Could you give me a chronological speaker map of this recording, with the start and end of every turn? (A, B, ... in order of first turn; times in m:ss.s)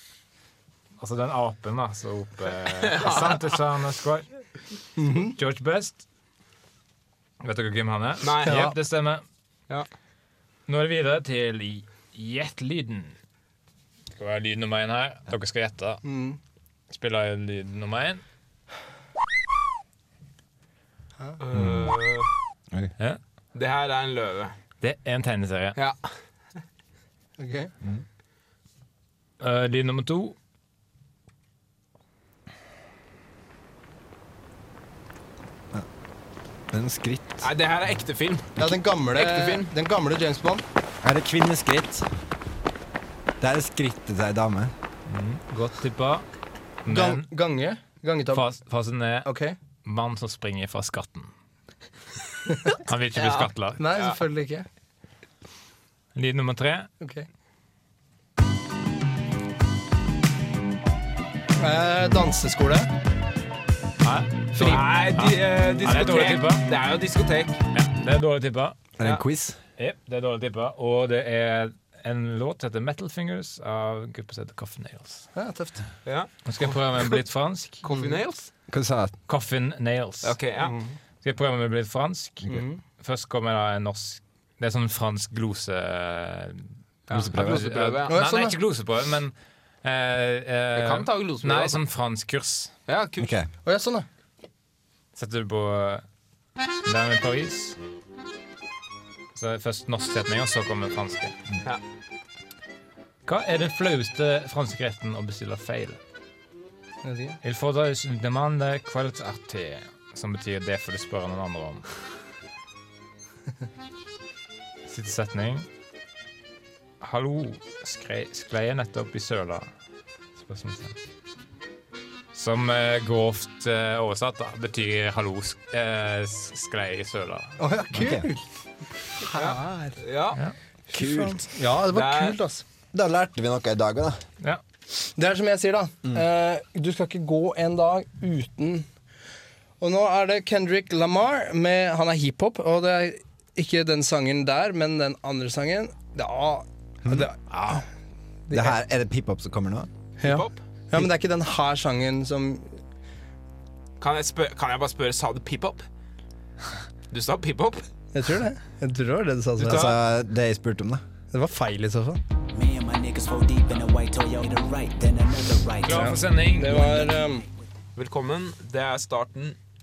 0:01.0-0:04.3 A
0:02.8-0:03.4 B
0:05.0-0:05.3 C
0:05.2-0:06.0 A
0:07.4-0:09.2 A
0:08.2-0:08.7 B
0:08.4-0:08.8 C
0:10.7-0:13.1 A
0:14.2-0:16.0 A
0:16.0-0:16.4 C
0:16.9-0:18.2 A
0:21.4-0:22.3 B
0:21.5-0:21.9 D
0:23.5-0:24.5 B
0:24.8-0:25.8 A
0:27.4-0:27.7 C
0:29.4-0:30.4 A
0:36.7-0:37.4 D
0:37.4-0:39.7 B
0:38.6-0:40.6 C
0:41.0-0:42.1 D
0:43.4-0:44.7 D
0:45.1-0:46.2 A
0:46.8-0:47.3 A
0:46.9-0:48.5 C
0:48.3-0:49.3 A
0:49.2-0:49.6 C
0:49.8-0:51.3 A
0:52.7-0:53.8 A
0:53.2-0:53.5 B
0:53.8-0:54.7 C
0:56.1-0:56.9 A
0:57.0-0:57.2 C
1:01.6-1:02.9 C
1:04.0-1:06.7 A
1:04.5-1:04.8 C
1:04.6-1:07.6 B
1:07.7-1:08.8 A
1:09.0-1:09.6 D
1:09.8-1:15.2 A
1:15.3-1:15.8 C
1:16.0-1:16.8 B
1:16.4-1:17.8 A
1:17.8-1:18.5 B
1:17.9-1:18.2 C
1:18.7-1:19.1 D
1:19.3-1:20.4 A
1:20.2-1:20.8 B
1:20.6-1:20.9 C
1:21.2-1:26.7 A
1:22.5-1:22.8 C
1:27.1-1:28.2 B
1:27.1-1:27.7 D
1:27.3-1:32.7 A
1:28.1-1:28.6 C
1:30.7-1:31.8 B
1:32.9-1:33.3 B
1:33.2-1:33.5 D
1:33.6-1:34.0 C
1:35.1-1:36.0 A
1:36.8-1:37.8 A
1:39.3-1:41.3 A
1:43.2-1:46.0 A
1:47.0-1:47.4 C
1:47.4-1:51.8 A
1:54.8-1:55.7 A
1:57.0-1:59.7 A
2:00.4-2:01.0 A
2:02.3-2:07.6 A
2:07.6-2:08.4 C
2:07.9-2:08.2 D
2:09.2-2:10.0 C
2:09.3-2:10.4 B
2:10.9-2:12.6 C
2:10.9-2:11.5 D
2:11.9-2:12.4 B
2:12.9-2:14.2 D
2:15.2-2:18.9 C
2:19.8-2:27.8 C
2:27.5-2:27.8 A
2:28.5-2:28.8 C
2:28.5-2:29.9 D
2:30.2-2:32.8 C
2:30.2-2:30.6 B
2:34.0-2:35.8 B
2:37.1-2:37.8 B
2:38.1-2:39.9 C
2:39.6-2:41.0 D
2:39.6-2:40.0 B
2:41.3-2:42.2 C
2:42.5-2:46.2 E
2:45.8-2:47.1 A
2:45.9-2:47.4 C
2:48.0-2:49.6 B